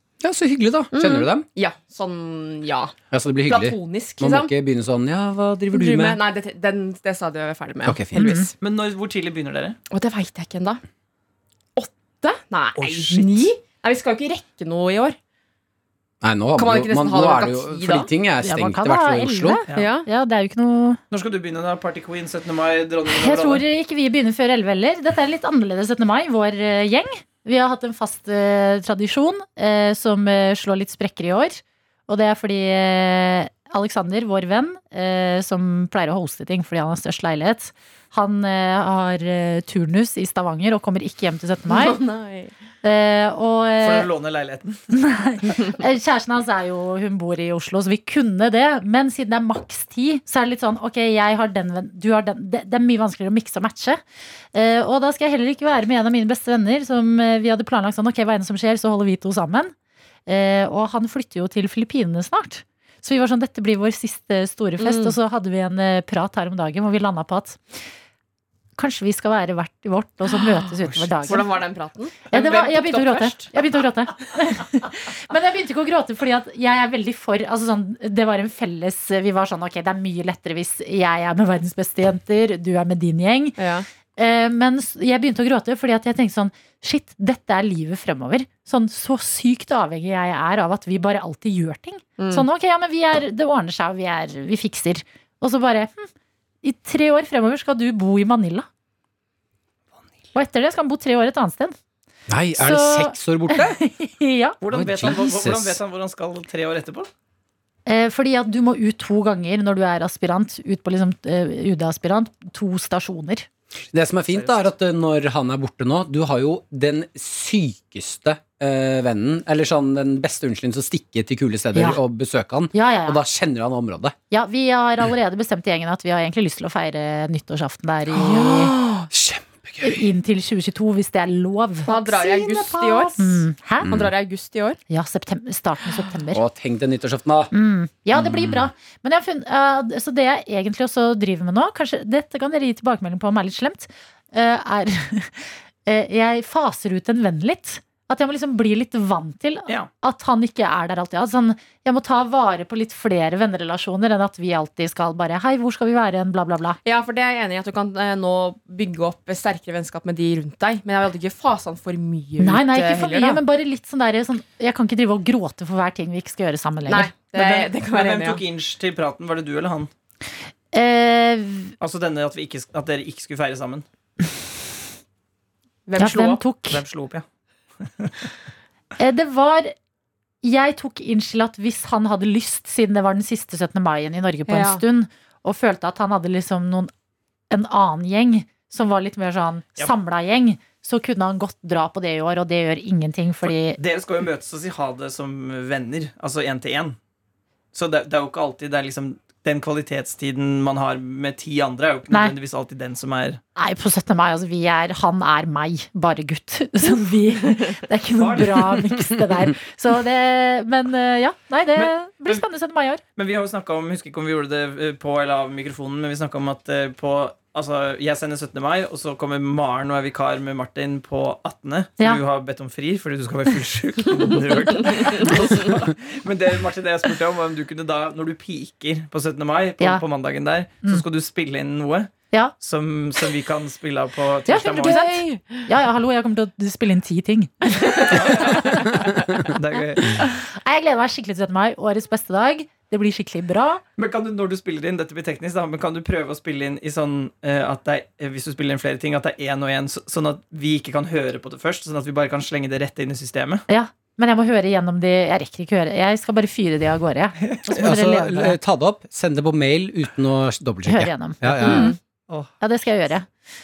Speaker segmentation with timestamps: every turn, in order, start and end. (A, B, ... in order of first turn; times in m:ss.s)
0:00.2-0:01.5 A
0:00.9-0:03.0 B
0:03.1-0:06.2 A
0:03.5-0:04.5 B
0:05.7-0:08.5 B
0:07.8-0:08.3 A
0:08.1-0:08.5 C
0:08.6-0:09.8 D
0:09.9-0:10.8 B
0:11.8-0:15.2 B
0:12.8-0:13.5 D
0:16.2-0:19.6 A
0:16.6-0:18.1 B
0:18.4-0:21.0 C
0:19.7-0:20.1 B
0:21.1-0:23.6 D
0:23.1-0:42.0 C
0:41.7-0:42.5 B
0:42.8-0:44.1 C
0:43.8-0:44.8 D
0:44.9-0:54.0 C
0:54.5-0:59.7 C
1:00.3-1:07.9 C
1:04.8-1:05.2 B
1:08.8-1:11.6 C
1:10.9-1:11.1 D
1:11.2-1:13.4 B
1:12.3-1:23.6 C
1:23.6-1:23.9 B
1:24.2-1:36.1 C
1:32.2-1:32.5 B
1:36.6-1:38.7 C
1:40.3-1:41.8 C
1:42.3-1:43.8 A
1:42.6-1:44.6 C
1:44.6-1:47.1 D
1:44.7-1:45.8 A
1:47.9-1:53.5 C
1:53.9-2:04.2 A
1:54.3-1:54.7 D
2:01.8-2:02.0 C
2:02.7-2:03.2 C
2:04.3-2:08.8 C
2:08.2-2:09.1 B
2:09.1-2:10.0 A
2:09.8-2:13.9 C
2:11.8-2:14.8 B
2:13.8-2:14.1 A
2:14.9-2:16.4 C
2:16.3-2:17.5 A
2:17.5-2:36.8 C
2:18.2-2:18.6 A
2:36.8-2:43.4 B
2:42.4-2:47.1 C
2:46.9-2:48.4 B
2:47.4-2:49.9 D
2:50.7-2:51.8 C
2:51.8-2:53.8 D
2:55.9-2:56.4 B
2:56.0-2:56.8 C
2:56.7-2:57.2 D
2:57.9-2:58.3 D
2:59.0-2:59.7 C
3:00.4-3:06.9 C
3:04.5-3:04.8 B
3:07.5-3:13.8 C
3:13.5-3:17.0 D
3:17.7-3:23.4 D
3:22.1-3:22.4 C
3:23.6-3:33.0 C
3:28.2-3:28.8 D
3:31.8-3:32.4 D
3:33.2-3:55.0 D
3:45.0-3:45.3 B
3:54.5-3:58.8 C
3:54.8-3:55.6 B
3:57.8-3:58.6 B
3:58.1-4:00.3 D
4:00.2-4:03.8 C
4:04.0-4:13.6 D
4:13.7-4:18.6 C
4:17.8-4:21.9 A
4:20.9-4:22.0 C
4:21.4-4:22.5 D
4:21.6-4:22.0 B
4:22.6-4:23.3 C